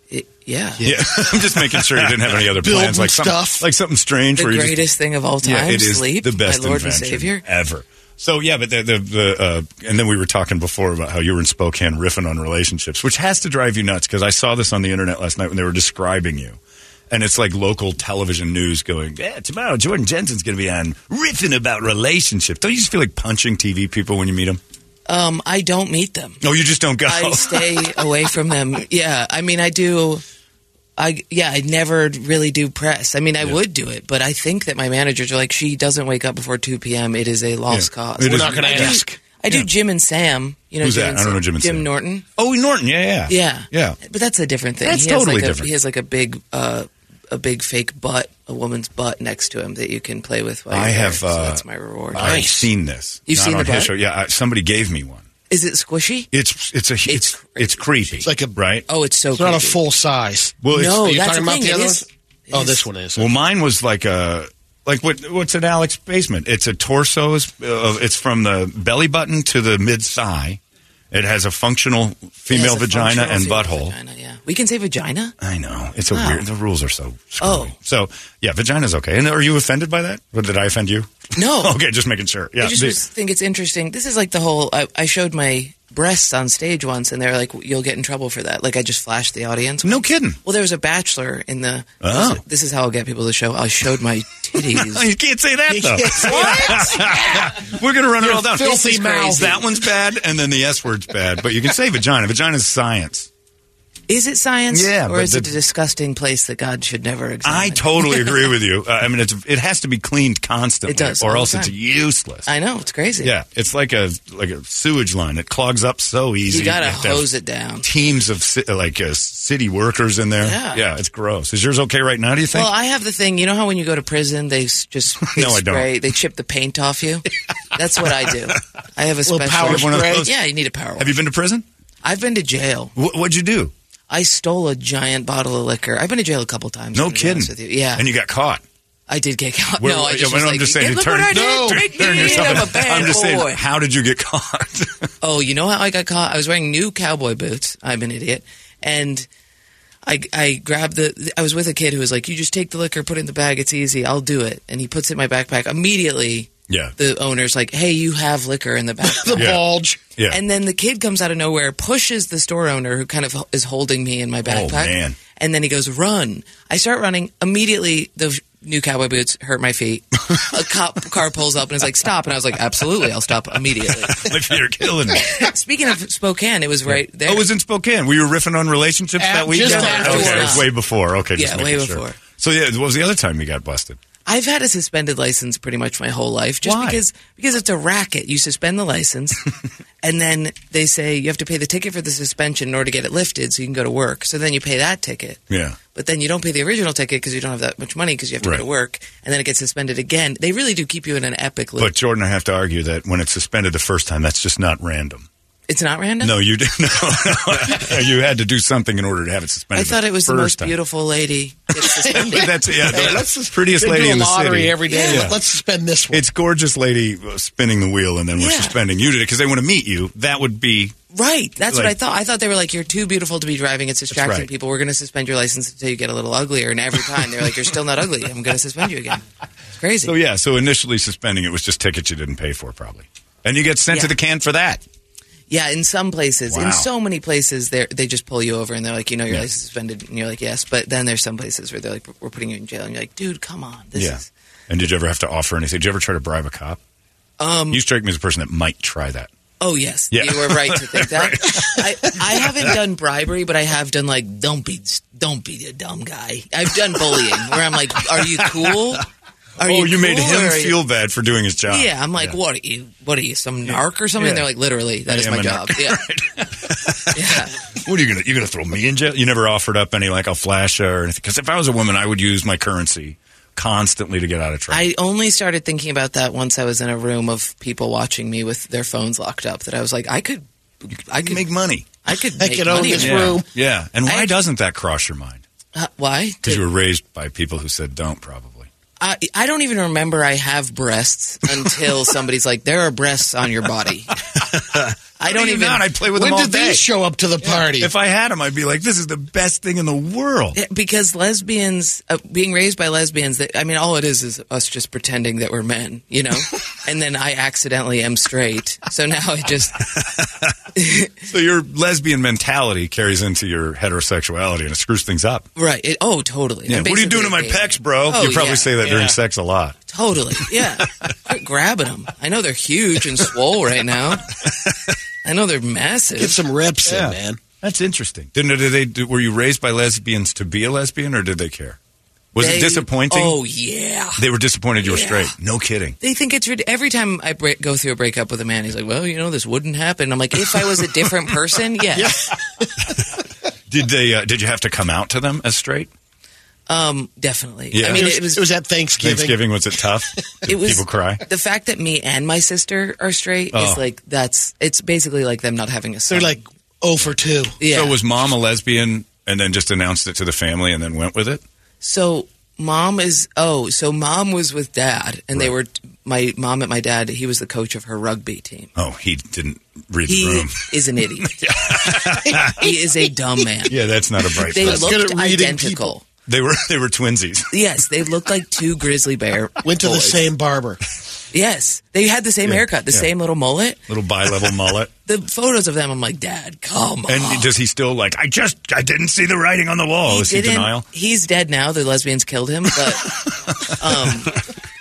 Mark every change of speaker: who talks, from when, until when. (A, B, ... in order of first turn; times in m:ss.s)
0:00.1-0:01.1 A
0:00.8-0:04.9 B
0:02.4-0:03.6 C
0:04.4-0:07.4 A
0:05.4-0:16.6 B
0:17.1-0:24.6 B
0:25.1-0:26.4 A
0:26.4-0:27.8 B
0:27.0-0:30.2 A
0:31.0-0:42.2 A
0:37.7-0:39.7 B
0:38.2-0:39.2 C
0:40.8-0:44.0 B
0:43.3-0:52.5 A
0:44.8-0:45.7 B
0:50.7-0:51.6 B
0:52.1-0:52.7 C
0:52.1-0:55.2 B
0:53.3-0:53.9 A
0:55.5-0:56.3 A
0:56.3-0:58.8 B
0:57.1-0:58.3 A
0:58.2-0:58.6 C
0:58.9-0:59.8 A
0:59.3-1:03.3 C
1:00.6-1:01.0 B
1:00.7-1:02.9 A
1:03.2-1:10.6 B
1:11.1-1:14.0 B
1:12.5-1:15.4 A
1:15.4-1:23.0 B
1:16.1-1:16.4 A
1:17.4-1:17.7 A
1:21.4-1:21.8 A
1:22.6-1:35.1 A
1:29.8-1:30.4 B
1:32.0-1:32.4 B
1:34.6-1:43.3 B
1:35.7-1:37.5 C
1:36.2-1:37.5 A
1:38.2-1:39.7 C
1:44.1-1:48.4 A
1:44.7-1:45.5 B
1:47.4-1:52.5 B
1:50.9-1:51.7 A
1:52.5-1:53.3 A
1:53.2-1:57.3 B
1:56.5-1:57.9 A
1:57.8-2:02.7 B
2:00.4-2:00.8 A
2:02.5-2:11.2 A
2:05.3-2:05.9 B
2:09.3-2:10.3 C
2:09.6-2:10.3 B
2:11.0-2:11.6 B
2:12.0-2:12.9 A
2:13.0-2:13.7 B
2:14.1-2:18.0 A
2:17.0-2:18.6 B
2:19.1-2:23.6 A
2:19.8-2:25.1 B
2:21.3-2:22.7 C
2:25.2-2:29.3 A
2:30.0-2:39.6 A
2:39.0-2:40.0 C
2:39.4-2:40.4 B
2:40.3-2:54.3 A
2:44.4-2:45.2 B
2:54.1-2:55.5 B
2:55.2-2:57.5 A
2:56.9-3:04.0 B
2:59.2-3:00.7 C
2:59.6-3:00.7 A
3:01.4-3:02.2 A
3:04.3-3:09.4 A
3:06.6-3:07.0 B
3:10.0-3:21.9 A
3:15.5-3:15.8 B
3:21.8-3:25.3 B
3:25.7-3:26.4 A
3:26.2-3:30.7 B
3:29.8-3:33.2 A
3:31.8-3:35.4 B
3:32.8-3:36.2 C
3:34.9-3:35.4 A
3:36.1-3:41.0 B
3:38.4-3:38.8 A
3:41.1-3:49.2 A
3:44.2-3:44.5 B
3:49.8-3:50.1 A
3:50.0-3:54.8 B
3:55.5-4:04.3 A
3:56.5-3:56.9 B
4:04.0-4:06.8 B
4:07.4-4:07.8 A
4:07.7-4:09.3 B
4:09.6-4:19.1 A
4:10.1-4:12.8 B
4:19.6-4:22.4 B
4:19.6-4:20.8 A
4:21.7-4:26.0 A
4:23.7-4:24.5 B
4:25.1-4:34.8 B
4:27.1-4:27.6 A
4:34.7-4:41.4 A
4:41.2-4:41.9 B
4:42.0-4:43.4 A
4:42.4-4:43.5 C
4:43.0-4:45.4 B
4:44.1-4:44.3 A
4:45.7-4:46.6 A
4:46.4-4:48.7 B
4:49.0-4:54.2 A
4:54.4-4:56.9 B
4:55.2-4:55.9 A
4:56.1-4:57.9 C
4:57.4-5:00.6 B
5:00.6-5:09.9 A
5:10.8-5:11.1 A
5:11.2-5:15.5 B
5:15.6-5:18.7 A
5:16.7-5:19.8 B
5:18.8-5:19.2 C
5:19.9-5:24.3 A
5:20.5-5:21.1 B
5:24.5-5:24.7 B
5:25.2-5:26.4 A
5:26.2-5:27.4 C
5:26.8-5:31.8 B
5:32.3-5:33.4 B
5:32.4-5:34.2 A
5:34.2-5:36.0 B
5:34.8-5:35.3 A
5:36.0-5:42.3 A
5:42.0-5:42.9 C
5:43.7-5:45.9 B
5:46.7-5:48.5 A
5:47.7-5:48.2 B
5:47.8-5:49.4 C
5:49.0-5:51.2 B
5:50.5-5:56.4 A
5:53.5-5:53.8 B
5:56.1-5:57.6 C
5:57.6-5:58.0 A
5:57.6-6:01.4 B
6:01.8-6:08.7 A
6:08.8-6:10.7 B
6:10.1-6:11.4 A
6:11.2-6:12.7 B
6:12.4-6:13.8 A
6:13.7-6:15.0 B
6:14.4-6:16.0 A
6:14.5-6:16.0 C
6:16.3-6:17.5 B
6:17.5-6:20.2 A
6:19.6-6:20.8 C
6:21.3-6:23.8 A
6:22.4-6:23.1 B
6:23.9-6:24.9 B
6:25.1-6:27.5 A
6:27.1-6:30.8 B
6:30.1-6:34.4 A
6:33.0-6:34.1 B